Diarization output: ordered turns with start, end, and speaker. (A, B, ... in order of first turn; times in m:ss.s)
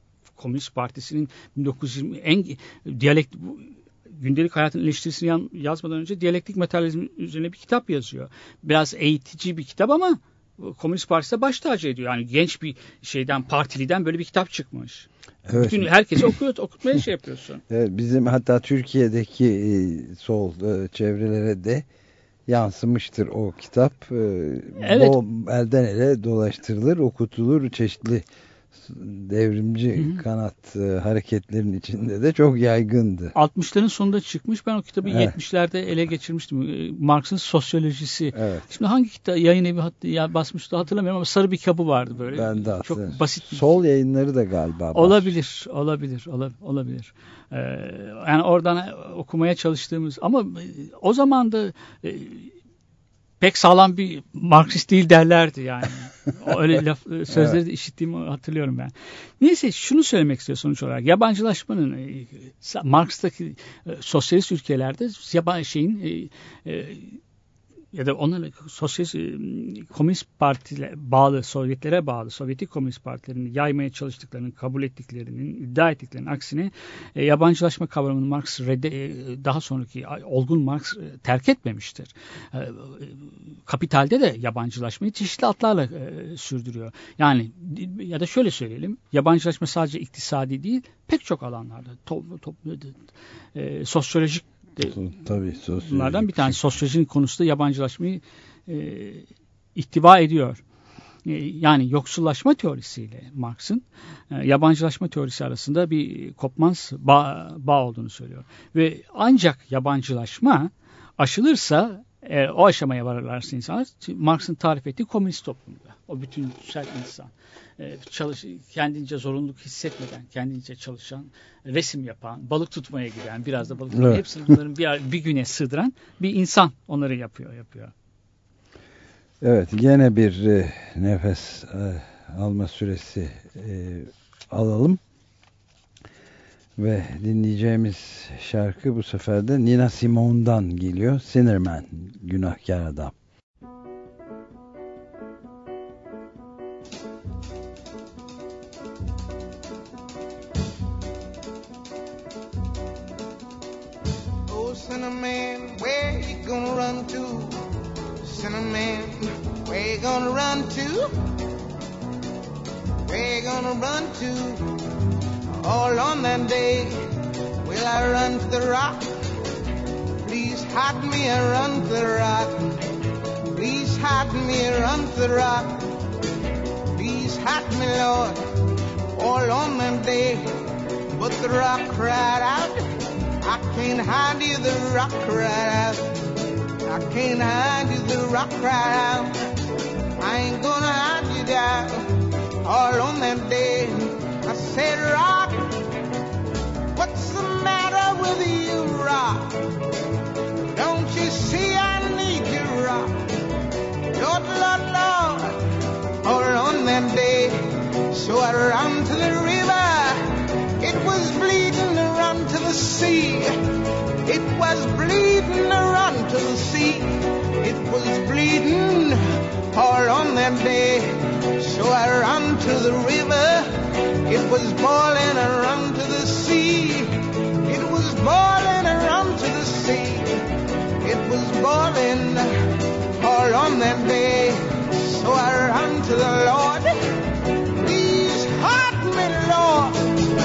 0:00.4-0:17.6 A
0:15.5-0:16.2 B
0:17.7-0:21.8 B
0:22.5-0:33.3 B
0:24.8-0:25.2 A
0:30.0-0:30.2 A
0:33.3-0:43.6 A
0:35.1-0:35.3 B
0:38.3-0:38.6 B
0:42.3-0:45.3 B
0:44.9-0:52.5 A
0:53.4-1:07.2 A
0:57.3-0:57.6 B
1:07.9-1:33.0 A
1:33.5-1:35.0 A
1:34.8-1:36.6 B
1:35.8-1:40.6 A
1:41.2-2:07.9 A
2:03.9-2:04.2 B
2:09.4-2:15.0 B
2:16.8-2:23.1 B
2:34.5-2:37.6 C
2:38.2-2:41.1 C
2:43.1-2:44.7 C
2:45.6-2:47.0 C
2:47.6-2:49.0 C
2:50.2-2:52.7 C
2:53.5-2:55.8 C
2:56.9-2:58.4 C
2:59.1-3:00.5 C
3:01.2-3:02.8 C
3:03.4-3:06.1 C
3:06.9-3:09.4 C
3:10.2-3:12.1 C
3:12.6-3:15.7 C
3:16.9-3:19.6 C
3:20.7-3:23.1 C
3:24.1-3:25.6 C
3:26.2-3:33.6 C
3:34.2-3:39.2 C
3:39.7-3:43.7 C
3:44.2-3:50.3 C
3:51.0-3:52.5 C
3:53.1-3:56.9 C
3:57.8-4:00.1 C